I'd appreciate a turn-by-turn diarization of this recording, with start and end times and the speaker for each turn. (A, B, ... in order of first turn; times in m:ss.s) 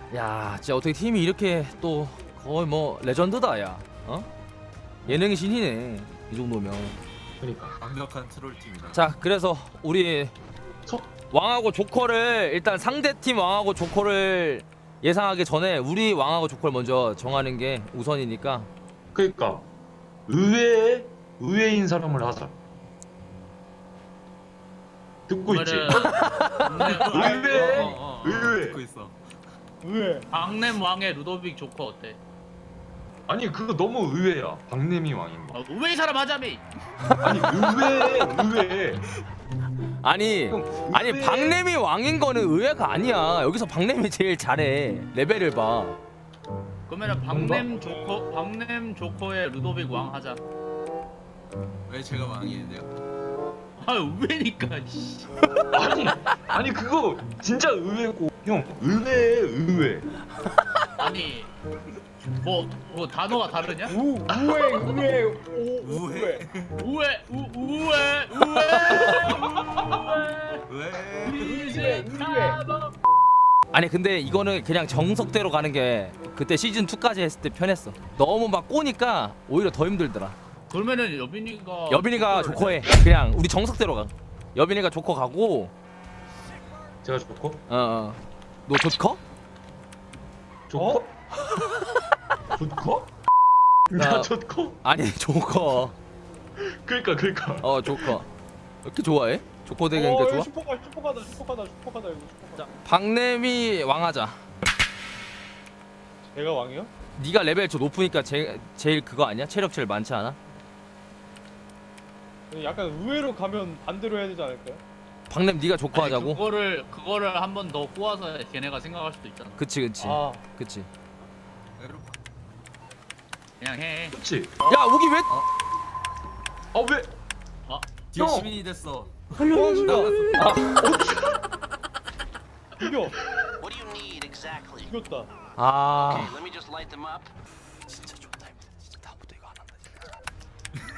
0:00.1-0:04.3 A
0:05.1-0:07.0 A
0:07.4-0:07.8 B
0:07.7-0:09.0 C
0:08.9-0:10.3 A
0:10.9-0:11.1 B
0:11.3-0:18.7 A
0:19.1-0:19.7 B
0:20.3-0:22.6 B
0:25.3-0:26.1 B
0:25.5-0:27.6 D
0:26.0-0:26.8 A
0:26.8-0:28.8 B
0:26.8-0:29.2 C
0:29.8-0:30.3 E
0:30.3-0:32.2 D
0:33.3-0:35.6 B
0:35.5-0:36.6 D
0:37.1-0:38.0 A
0:37.2-0:39.1 B
0:40.0-0:46.0 A
0:40.4-0:41.6 B
0:46.9-0:50.4 D
0:47.3-0:48.0 B
0:51.9-0:52.9 C
0:53.8-0:55.6 D
0:55.7-1:00.1 B
1:01.0-1:01.5 D
1:02.4-1:04.0 D
1:03.9-1:06.4 E
1:05.8-1:06.9 C
1:06.8-1:10.6 D
1:08.7-1:09.2 A
1:09.3-1:10.0 C
1:10.7-1:12.2 C
1:11.3-1:12.9 D
1:11.5-1:12.5 E
1:13.7-1:20.4 A
1:20.7-1:22.9 D
1:21.9-1:25.7 A
1:27.0-1:27.6 B
1:27.7-1:29.2 A
1:30.7-1:31.1 B
1:30.8-1:31.0 E
1:32.5-1:33.1 B
1:33.9-1:34.8 B
1:34.0-1:34.3 A
1:34.8-1:36.0 A
1:36.6-1:38.2 B
1:37.6-1:38.3 A
1:38.8-1:40.5 A
1:39.9-1:42.8 E
1:42.6-1:44.4 A
1:46.3-1:46.9 E
1:47.2-1:50.4 A
1:52.5-1:54.8 E
1:55.3-1:56.4 A
1:55.9-1:59.6 D
1:59.6-2:00.9 A
2:00.0-2:00.5 E
2:01.8-2:02.2 C
2:03.6-2:04.2 D
2:04.1-2:04.6 B
2:04.6-2:05.3 A
2:06.7-2:07.1 B
2:08.1-2:10.8 C
2:08.2-2:08.5 B
2:09.4-2:10.2 E
2:09.5-2:11.0 A
2:10.8-2:11.4 B
2:12.8-2:13.2 E
2:13.6-2:14.8 F
2:14.8-2:15.3 E
2:15.6-2:16.4 A
2:15.9-2:17.3 F
2:17.9-2:19.9 A